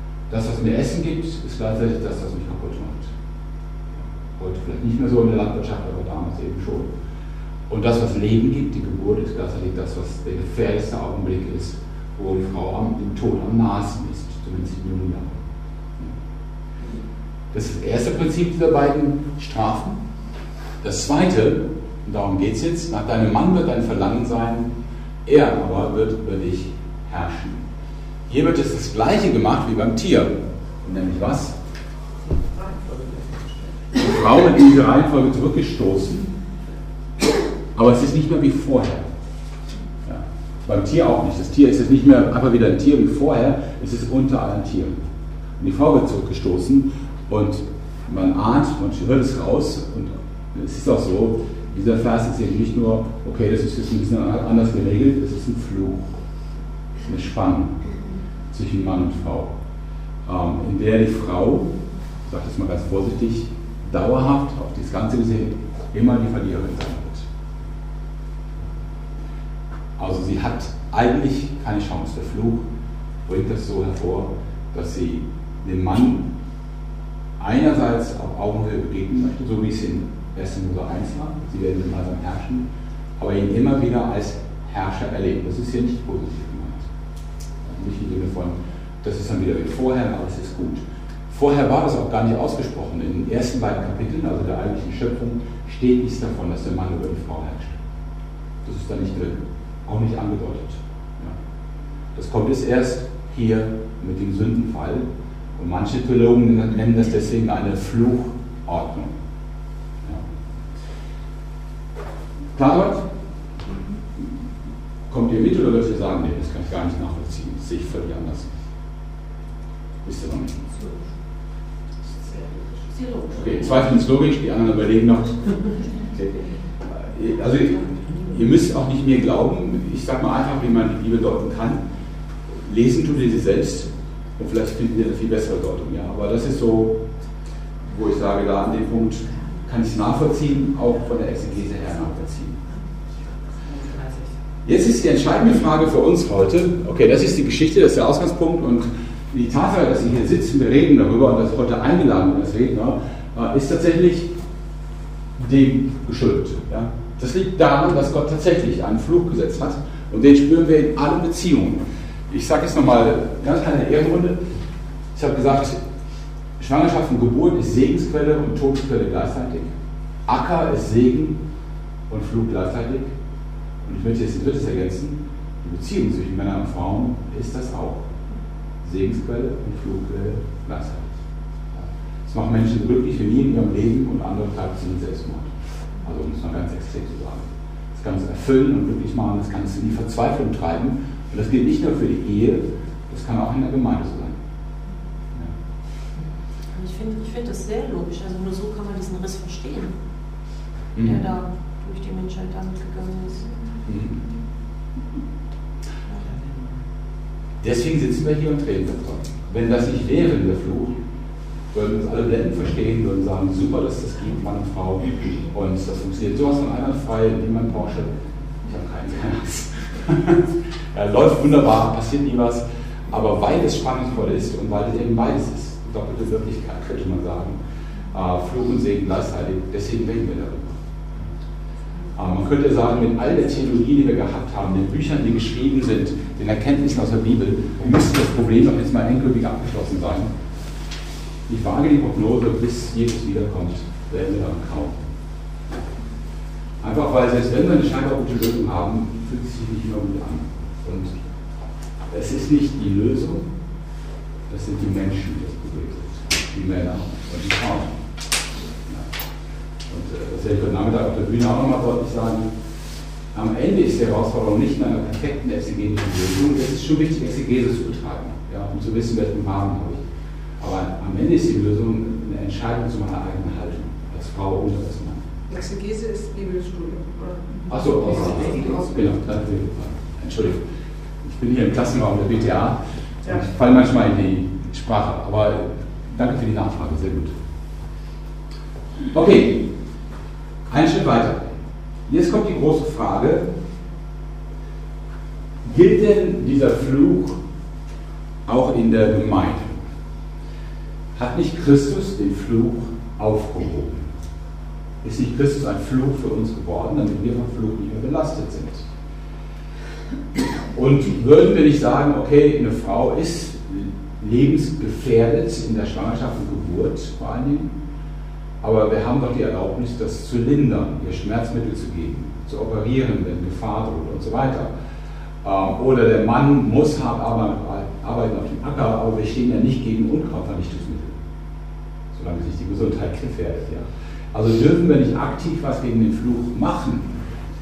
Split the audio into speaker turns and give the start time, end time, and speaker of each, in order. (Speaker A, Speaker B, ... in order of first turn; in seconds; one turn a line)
Speaker A: 0.3-3.1
Speaker A: 4.0-6.9
Speaker A: 7.7-15.4
Speaker A: 17.5-20.0
Speaker A: 20.8-24.7
Speaker A: 25.3-27.6
Speaker A: 28.3-31.6
Speaker B: 32.3-33.9
Speaker A: 34.0-36.3
Speaker A: 37.8-39.1
Speaker A: 40.1-45.0
Speaker A: 45.6-56.2
Speaker A: 57.0-57.9
Speaker A: 58.5-59.5
Speaker A: 60.3-61.7
Speaker A: 62.3-67.3
Speaker A: 70.0-72.7
Speaker A: 73.3-76.3
Speaker A: 77.4-86.9
Speaker A: 87.6-97.8
Speaker A: 98.6-101.4
Speaker A: 102.1-109.1
Speaker A: 112.5-113.1
Speaker A: 115.1-118.5
Speaker A: 120.0-120.6
Speaker B: 122.2-122.7
Speaker A: 123.3-125.5
Speaker A: 126.9-131.8
Speaker A: 132.6-137.0
Speaker A: 137.9-142.6
Speaker B: 143.3-144.3
Speaker A: 144.6-154.3
Speaker A: 155.4-164.4
Speaker A: 165.1-165.8
Speaker A: 166.6-169.7
Speaker A: 170.3-171.4
Speaker A: 172.1-173.1
Speaker A: 173.8-178.1
Speaker A: 178.8-181.2
Speaker A: 181.7-185.5
Speaker A: 186.0-194.4
Speaker C: 196.7-199.9
Speaker A: 200.9-201.2
Speaker C: 201.0-203.5
Speaker A: 203.9-204.2
Speaker A: 207.6-211.0
Speaker A: 211.7-218.1
Speaker A: 218.6-227.6
Speaker A: 228.1-230.8
Speaker A: 232.1-240.3
Speaker A: 241.5-245.0
Speaker A: 246.8-251.2
Speaker A: 252.1-253.4
Speaker A: 254.5-257.9
Speaker A: 259.9-262.5
Speaker A: 263.3-270.0
Speaker A: 270.6-275.2
Speaker B: 275.5-278.9
Speaker A: 277.7-280.6
Speaker A: 281.2-287.3
Speaker A: 289.1-289.6
Speaker A: 290.7-291.5
Speaker A: 292.1-293.5
Speaker A: 295.6-297.4
Speaker A: 298.4-299.8
Speaker A: 301.1-304.1
Speaker A: 305.0-308.9
Speaker A: 310.7-317.7
Speaker A: 318.6-324.8
Speaker A: 325.4-331.2
Speaker A: 332.1-337.1